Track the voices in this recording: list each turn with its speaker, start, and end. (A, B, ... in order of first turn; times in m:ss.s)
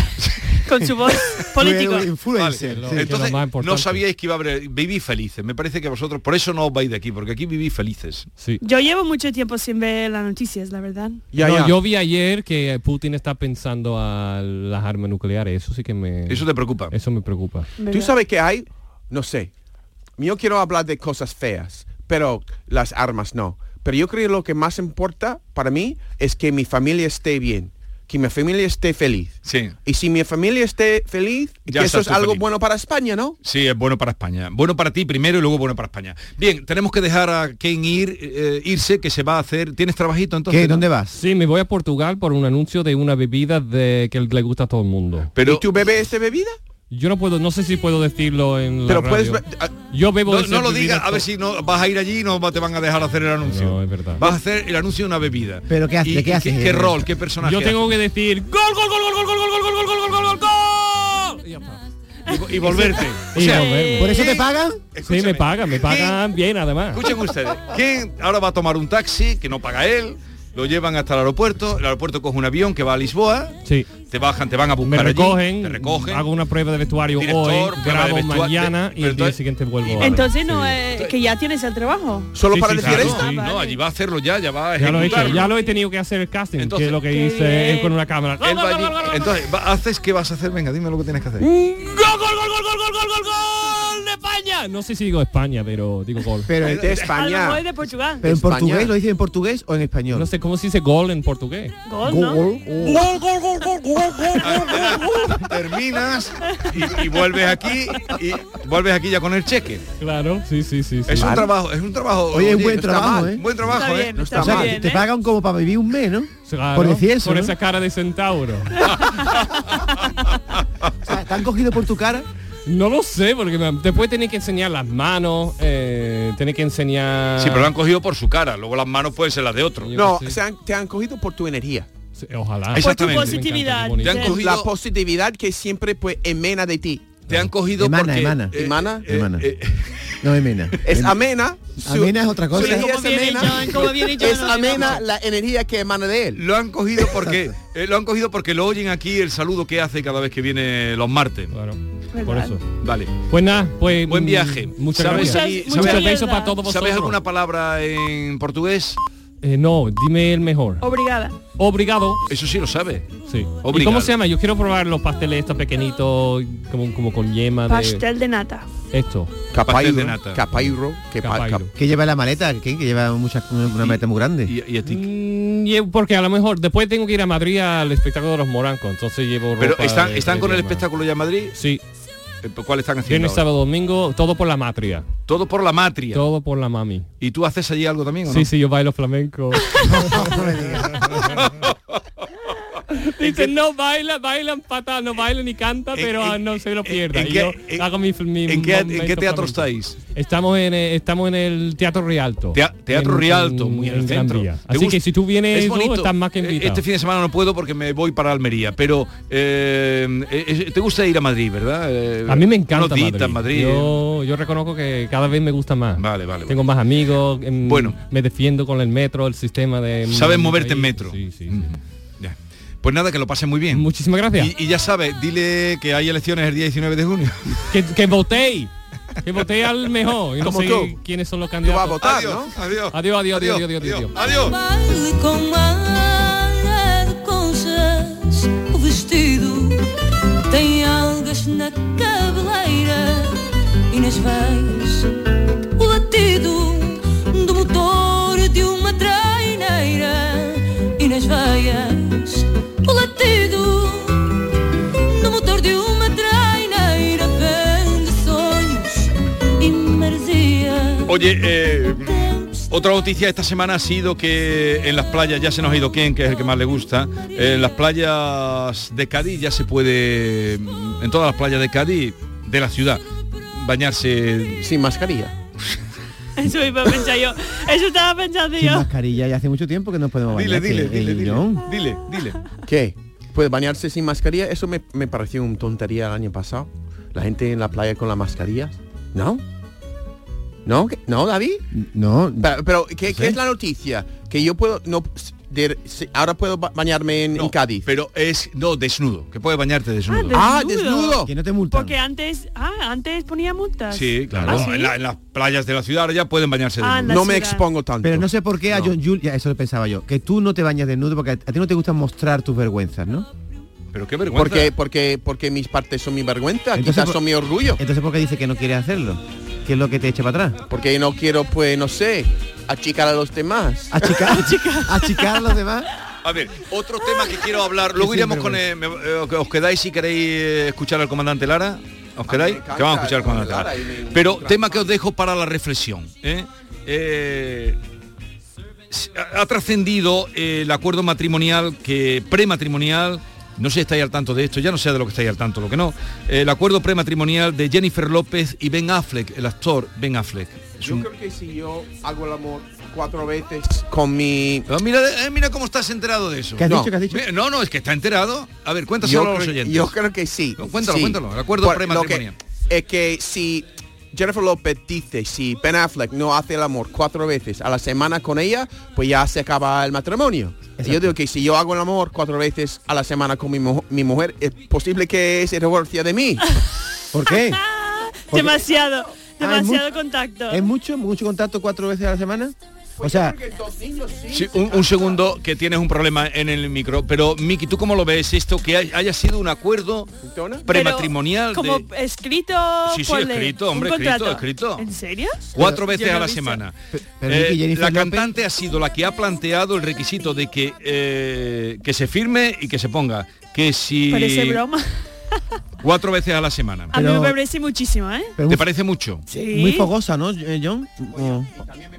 0:00.5-0:02.1 A
0:01.6-0:03.1 B
0:02.4-0:08.3 C
0:02.6-0:04.0 D
0:08.6-0:11.2 A
0:11.3-0:11.7 E
0:11.4-0:17.7 D
0:16.3-0:16.9 C
0:17.8-0:18.1 A
0:17.9-0:19.5 E
0:20.2-0:33.4 E
0:29.4-0:29.7 C
0:31.7-0:32.4 C
0:33.4-0:40.8 C
0:40.5-0:41.2 B
0:41.1-0:45.3 D
0:45.4-0:45.6 C
0:45.4-0:46.6 E
0:46.9-0:51.3 D
0:48.9-0:49.7 E
0:50.3-0:57.9 C
0:53.4-0:54.2 D
0:55.7-0:57.0 B
0:57.4-1:04.2 D
0:59.3-1:00.5 C
1:02.3-1:03.7 C
1:03.4-1:04.4 A
1:04.0-1:04.8 B
1:04.9-1:06.2 C
1:05.0-1:07.1 D
1:06.9-1:16.2 C
1:14.8-1:20.8 D
1:17.2-1:20.2 C
1:20.0-1:22.3 A
1:22.3-1:23.2 E
1:22.5-1:25.5 C
1:22.8-1:23.5 D
1:23.0-1:23.8 A
1:24.8-1:29.4 D
1:26.6-1:27.0 C
1:27.1-1:27.9 A
1:28.4-1:31.5 C
1:31.4-1:36.5 D
1:36.5-1:37.0 B
1:36.6-1:37.6 E
1:37.1-1:38.2 A
1:38.2-1:40.3 B
1:38.2-1:38.9 E
1:40.1-1:41.8 D
1:41.8-1:42.4 A
1:42.0-1:43.0 B
1:42.8-1:45.3 D
1:44.4-1:49.8 C
1:44.5-1:45.4 A
1:46.4-1:46.9 A
1:50.0-1:51.4 D
1:51.1-1:54.6 C
1:51.1-1:51.5 E
1:52.3-1:53.4 B
1:52.5-1:53.4 E
1:53.7-1:55.0 A
1:54.2-1:54.8 E
1:54.3-1:57.5 B
1:56.5-1:58.9 D
1:58.8-2:00.0 C
1:59.0-1:59.3 A
2:00.5-2:00.9 C
2:01.0-2:02.2 B
2:02.7-2:07.7 D
2:07.4-2:09.9 C
2:09.8-2:10.4 D
2:09.9-2:11.9 E
2:12.2-2:14.4 D
2:12.7-2:13.4 C
2:12.7-2:14.4 A
2:14.0-2:14.7 C
2:14.3-2:17.2 E
2:17.3-2:20.2 C
2:17.8-2:19.5 B
2:18.5-2:19.1 E
2:20.2-2:21.2 B
2:20.8-2:26.4 E
2:21.8-2:22.9 B
2:22.5-2:25.0 A
2:26.4-2:31.5 C
2:31.5-2:32.7 D
2:32.1-2:32.5 A
2:32.8-2:33.1 C
2:33.3-2:37.2 D
2:34.0-2:39.0 C
2:35.0-2:36.5 A
2:39.4-2:40.8 D
2:40.8-2:41.4 A
2:41.6-2:42.2 D
2:42.3-2:43.1 C
2:43.2-2:48.0 D
2:43.6-2:44.1 C
2:47.7-2:48.7 A
2:48.9-2:49.3 D
2:49.5-2:51.6 E
2:49.6-2:50.4 C
2:51.2-2:51.7 D
2:51.7-2:54.5 B
2:53.8-2:55.0 C
2:54.8-3:00.9 D
2:59.6-3:01.5 C
3:01.5-3:01.8 D
3:02.4-3:03.4 C
3:03.0-3:05.1 D
3:05.3-3:06.2 C
3:06.1-3:07.1 D
3:07.2-3:08.5 C
3:08.3-3:10.4 D
3:09.9-3:11.1 B
3:11.3-3:12.0 C
3:12.9-3:19.6 D
3:13.2-3:13.5 C
3:15.9-3:17.9 C
3:18.5-3:20.0 C
3:20.1-3:26.8 D
3:22.5-3:33.9 C
3:32.3-3:41.7 D
3:36.0-3:36.6 C
3:37.6-3:38.0 C
3:40.1-3:43.8 C
3:43.7-3:44.5 D
3:44.4-3:47.6 C
3:47.7-3:48.7 D
3:49.2-3:52.1 D
3:50.4-3:51.0 E
3:51.6-3:52.6 E
3:52.0-3:54.6 C
3:52.9-3:54.2 D
3:54.4-3:59.8 F
4:00.5-4:05.1 F
4:05.8-4:14.3 F
4:15.1-4:21.2 F
4:21.1-4:33.0 C
4:22.0-4:22.7 F
4:33.5-4:34.6 C
4:34.6-4:35.3 E
4:36.4-4:38.8 A
4:38.6-4:41.6 B
4:40.3-4:42.4 C
4:42.7-4:49.4 E
4:50.6-4:51.6 E
4:51.7-4:52.5 B
4:52.4-4:57.8 E
4:53.0-4:53.4 B
4:57.3-5:00.5 C
5:00.1-5:04.9 A
5:00.3-5:01.3 E
5:01.2-5:01.9 B
5:03.9-5:07.2 C
5:04.3-5:04.6 B
5:06.8-5:07.6 A
5:07.0-5:08.3 E
5:08.0-5:13.3 B
5:13.9-5:14.7 C
5:14.3-5:17.8 E
5:16.8-5:17.2 B
5:17.8-5:20.6 B
5:20.7-5:24.1 E
5:23.9-5:25.9 B
5:24.1-5:25.4 A
5:26.2-5:37.8 C
5:28.0-5:28.6 B
5:32.3-5:34.9 E
5:38.9-5:51.1 C
5:50.8-5:54.7 E
5:54.7-5:59.9 C
5:56.6-5:57.2 B
5:56.6-5:56.9 E
5:59.0-6:16.4 E
6:00.6-6:02.4 C
6:10.8-6:11.1 B
6:17.1-6:17.6 B
6:17.2-6:20.6 A
6:18.3-6:18.6 B
6:19.4-6:19.8 B
6:20.5-6:23.4 B
6:23.0-6:25.3 E
6:24.3-6:30.1 C
6:30.2-6:30.7 E
6:30.6-6:31.8 C
6:30.7-6:36.6 A
6:32.9-6:34.8 C
6:35.5-6:36.8 C
6:36.9-6:38.3 B
6:37.3-6:44.6 C
6:44.1-6:44.8 A
6:45.8-6:46.9 C
6:46.9-6:47.4 B
6:46.9-6:48.3 A
6:48.4-6:48.6 B
6:48.5-6:49.2 C
6:49.3-6:49.9 A
6:49.5-6:51.5 B